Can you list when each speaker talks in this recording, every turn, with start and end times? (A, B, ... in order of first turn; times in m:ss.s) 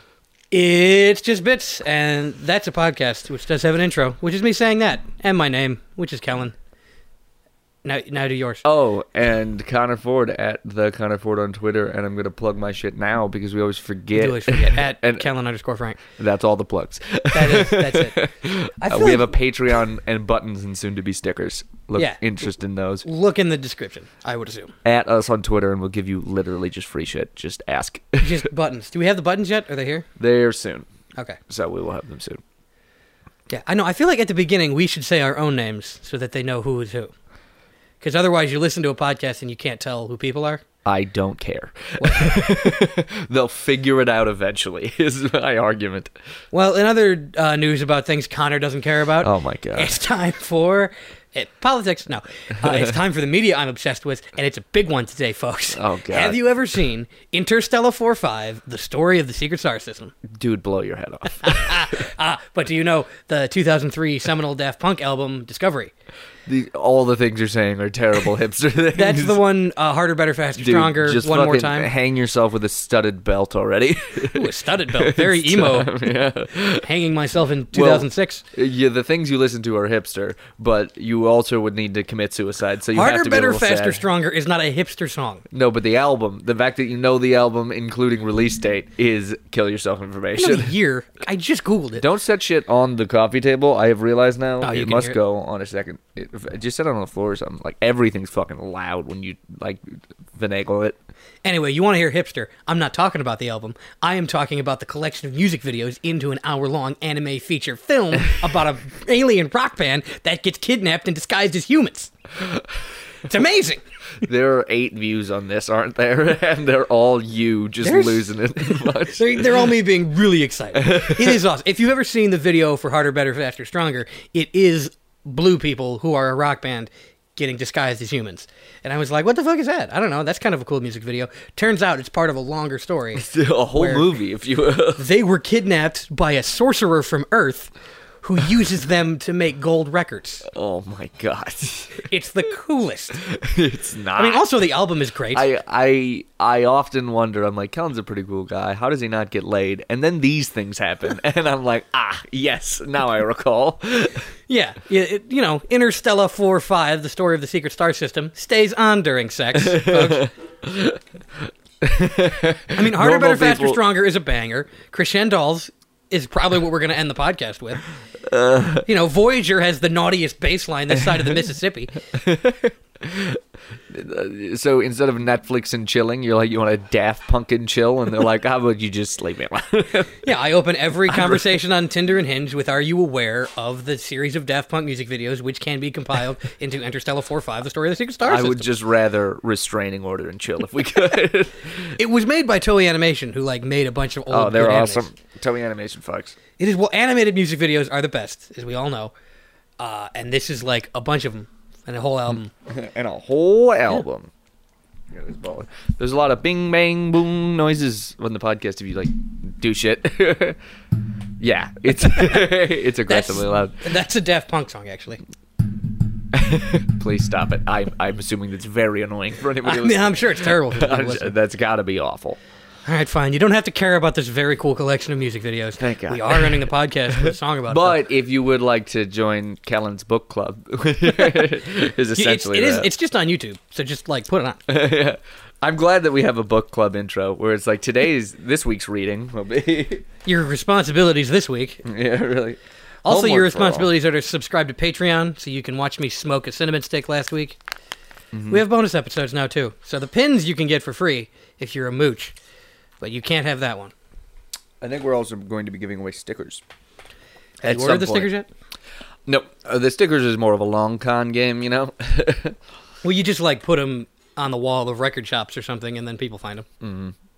0:00.5-0:06.5 A
0:07.8-0:08.6 A
0:08.6-0:15.3 B
0:14.1-0:16.0 A
0:16.1-0:23.1 B
0:17.3-0:18.2 A
0:18.8-0:19.3 A
0:23.0-0:24.7 A
0:24.8-0:28.4 B
0:28.2-0:30.1 A
0:30.2-0:30.9 B
0:31.5-0:32.4 B
0:33.5-0:37.1 A
0:38.0-0:40.6 A
0:40.8-0:46.1 B
0:42.0-0:42.4 A
0:46.5-1:00.1 A
0:49.2-0:50.0 B
0:55.7-0:56.4 B
1:00.3-1:02.1 B
1:01.3-1:05.9 A
1:06.5-1:09.4 B
1:08.9-1:11.9 A
1:10.6-1:16.9 B
1:14.3-1:16.0 A
1:16.7-1:18.4 A
1:17.7-1:24.0 B
1:22.9-1:25.4 A
1:25.5-1:30.8 B
1:30.4-1:32.0 A
1:32.0-1:41.0 B
1:34.6-1:35.2 A
1:41.4-1:52.1 A
1:53.2-1:53.8 A
1:54.2-1:59.7 B
1:57.8-2:14.1 A
2:00.8-2:01.4 B
2:13.2-2:15.0 B
2:15.0-2:20.5 A
2:20.4-2:22.0 B
2:22.0-2:23.2 A
2:23.2-2:24.4 B
2:24.2-2:25.4 A
2:25.3-2:34.2 B
2:34.5-2:40.3 A
2:39.6-2:41.0 B
2:41.8-2:43.8 B
2:42.8-2:47.8 A
2:48.2-2:48.8 B
2:48.8-2:52.0 A
2:52.1-3:00.2 B
3:00.2-3:08.7 A
3:01.1-3:01.4 B
3:08.2-3:12.0 B
3:12.0-3:15.1 A
3:14.3-3:16.4 B
3:16.6-3:19.1 A
3:19.8-3:22.5 A
3:22.7-3:24.3 B
3:25.1-3:30.6 B
3:31.4-3:33.8 B
3:33.1-3:35.2 A
3:36.3-3:42.4 B
3:39.6-3:41.4 A
3:42.9-3:48.0 A
3:45.8-3:52.9 B
3:52.2-3:54.6 A
3:54.7-4:00.0 B
4:00.2-4:01.8 A
4:01.8-4:03.9 B
4:03.0-4:07.6 A
4:08.3-4:08.6 B
4:08.5-4:12.3 A
4:13.0-4:13.9 A
4:14.8-4:16.6 B
4:17.6-4:18.3 B
4:17.6-4:18.5 A
4:19.3-4:22.6 B
4:23.0-4:26.7 A
4:26.8-4:27.1 B